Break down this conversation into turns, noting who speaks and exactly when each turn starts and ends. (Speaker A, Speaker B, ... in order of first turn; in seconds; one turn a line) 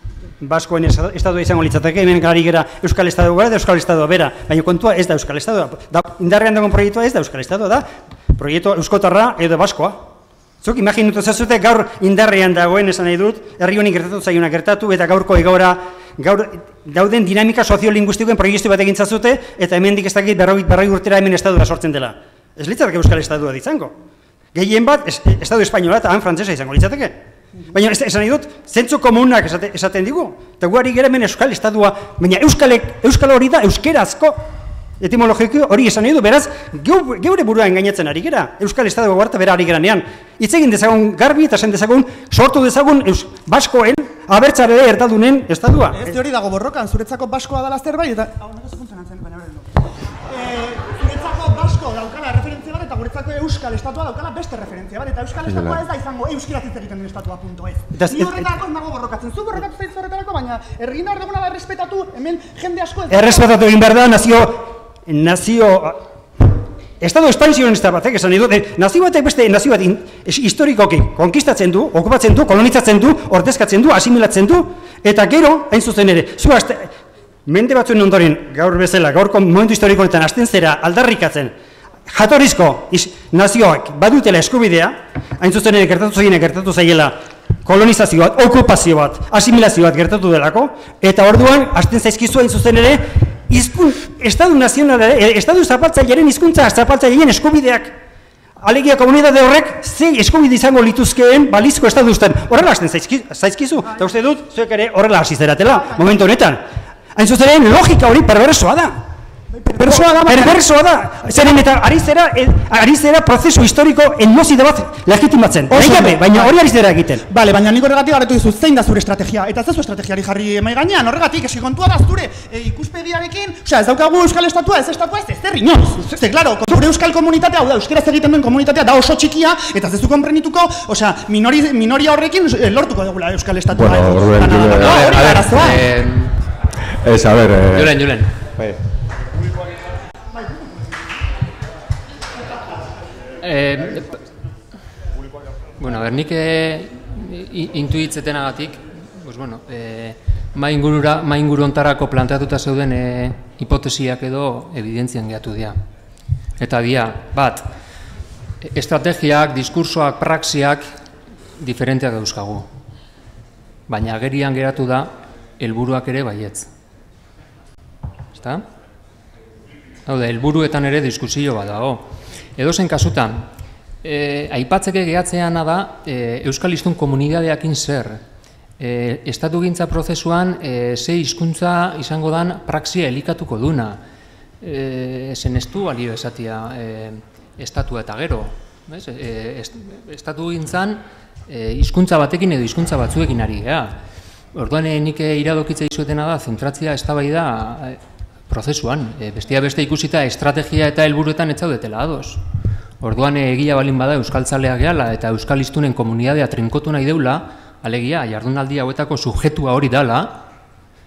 Speaker A: 0.4-10.1
Speaker A: 10.6-23.9
Speaker A: 24.5-27.2
Speaker A: 27.7-34.4
Speaker A: 35.0-46.2
Speaker B: 45.9-63.5
Speaker C: 55.5-55.8
Speaker A: 57.9-58.5
Speaker A: 63.1-66.1
Speaker A: 67.0-76.9
Speaker A: 77.5-81.5
Speaker A: 82.1-98.0
Speaker A: 98.6-106.6
Speaker A: 107.2-109.0
Speaker B: 109.5-110.6
Speaker A: 109.8-117.3
Speaker B: 111.3-111.7
Speaker B: 115.7-116.5
Speaker B: 117.3-135.9
Speaker C: 133.7-135.3
Speaker D: 134.7-136.3
Speaker C: 137.0-138.0
Speaker D: 137.7-138.3
Speaker D: 143.4-144.2
Speaker D: 145.8-155.8
Speaker D: 156.6-157.7
Speaker D: 158.6-160.9
Speaker D: 161.6-162.7
Speaker D: 163.9-166.7
Speaker D: 168.3-168.7
Speaker D: 170.1-173.5
Speaker D: 174.0-178.2
Speaker D: 178.8-184.0
Speaker D: 184.6-193.9
Speaker D: 194.5-202.4
Speaker D: 203.0-210.4